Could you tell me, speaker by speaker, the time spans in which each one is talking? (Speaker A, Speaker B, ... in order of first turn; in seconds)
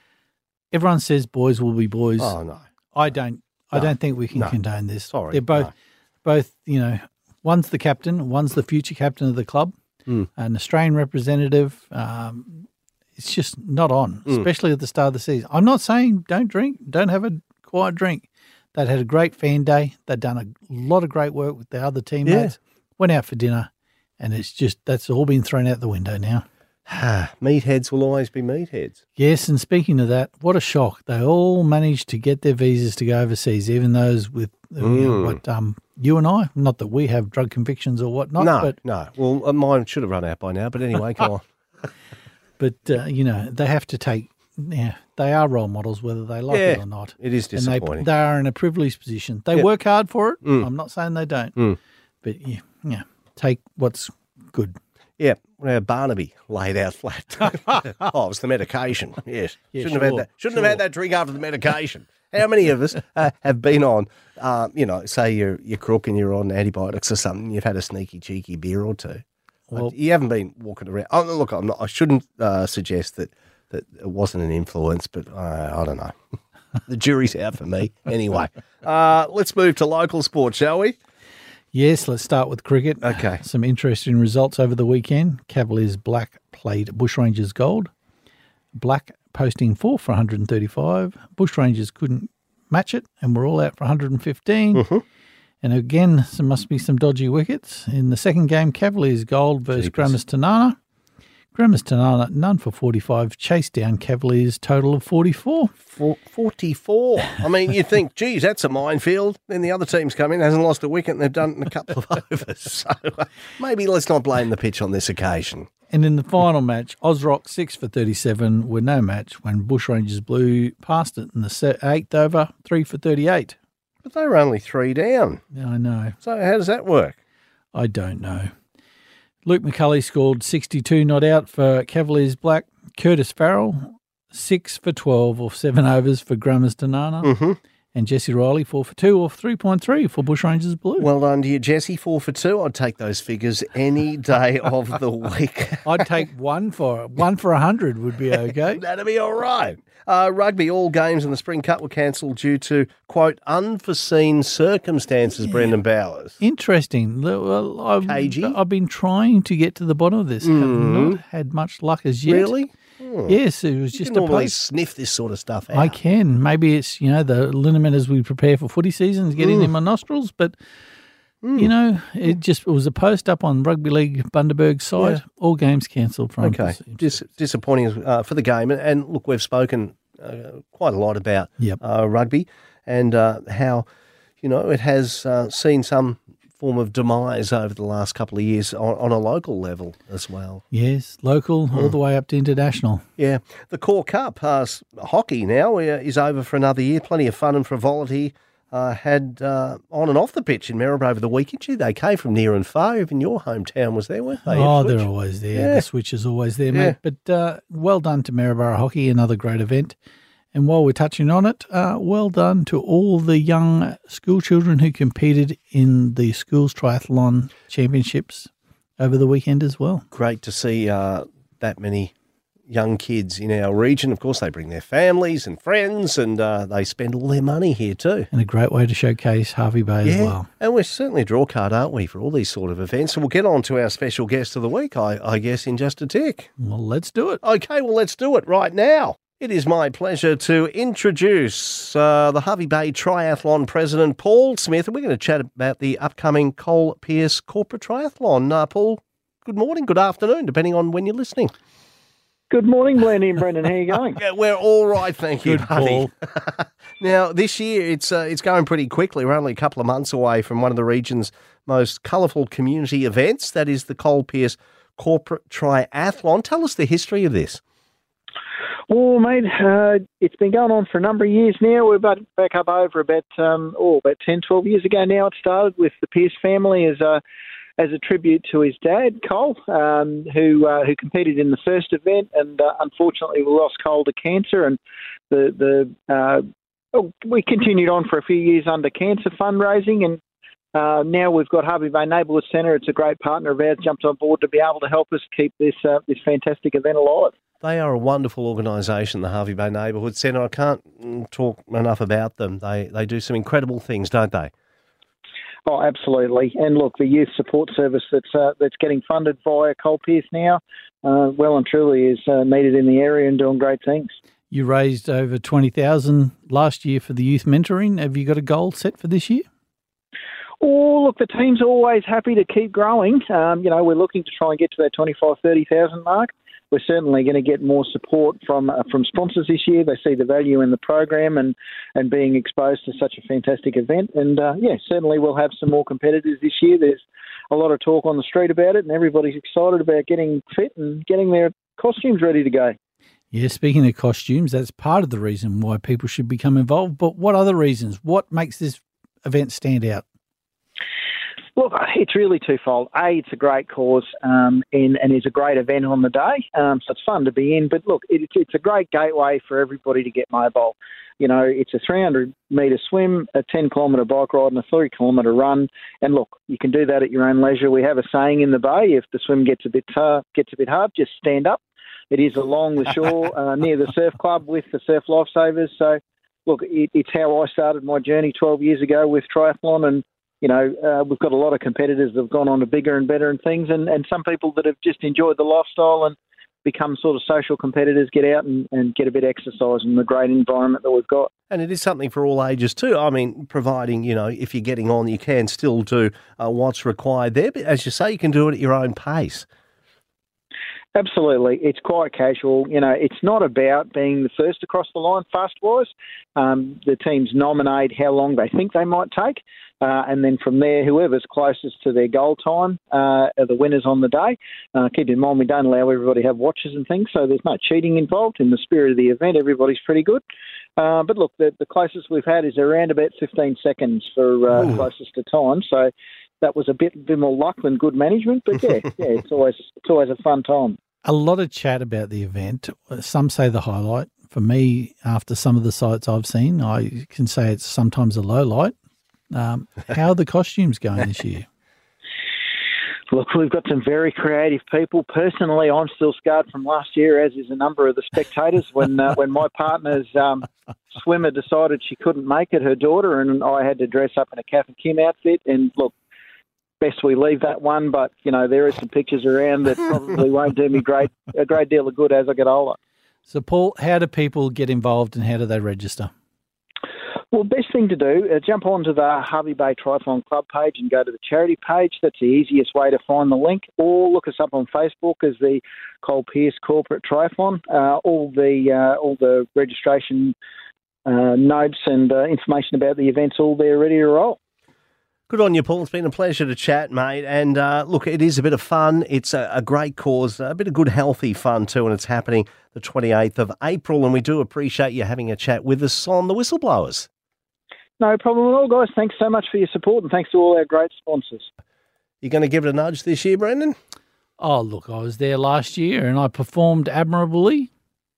Speaker A: 0.7-2.3, 2.9-5.7, 6.2-9.7, 10.3-26.4, 29.1-38.7, 42.6-51.6, 52.2-54.8, 59.7-60.8, 81.7-87.9, 88.7-94.8, 95.6-100.8, 101.5-105.7, 115.9-123.6, 125.5-126.2, 127.7-128.5, 129.4-137.3, 137.9-141.1, 145.8-148.8, 156.4-162.5, 163.3-164.6, 165.7-170.6, 171.6-177.1, 190.7-193.0, 204.4-210.0, 210.5-220.0, 228.3-230.5, 236.6-237.4, 255.4-256.1, 314.5-319.4, 343.3-350.0, 431.0-438.7, 439.3-441.4, 463.3-466.1, 504.4-507.7
Speaker B: 2.2-2.6, 3.7-4.5, 5.1-5.7, 22.2-22.5, 26.9-29.0, 34.8-35.4, 38.4-41.4, 46.5-48.1, 55.2-69.2, 69.7-76.1, 76.8-81.0, 83.0-83.4, 94.7-95.0, 99.7-100.2, 105.8-115.7, 124.0-125.4, 126.2-127.2, 137.2-137.6, 141.0-146.0, 148.7-156.4, 158.0-158.6, 160.4-161.2, 162.3-163.4, 163.9-165.9, 169.4-169.7, 171.4-171.7, 176.4-183.8, 184.4-190.6, 193.2-205.8, 206.7-207.0, 220.1-222.1, 222.7-228.3, 230.0-236.5, 237.4-251.5, 254.2-267.6, 297.6-304.5, 391.5-399.4, 485.3-497.1, 502.2-503.7
Speaker C: 252.5-254.2, 268.9-277.2, 277.8-284.8, 285.3-290.2, 290.7-297.3, 305.6-314.1, 320.6-342.8, 351.6-391.3, 400.9-420.2, 420.8-430.8, 443.1-455.9, 456.8-462.8, 467.3-480.4, 481.1-484.4, 498.0-501.5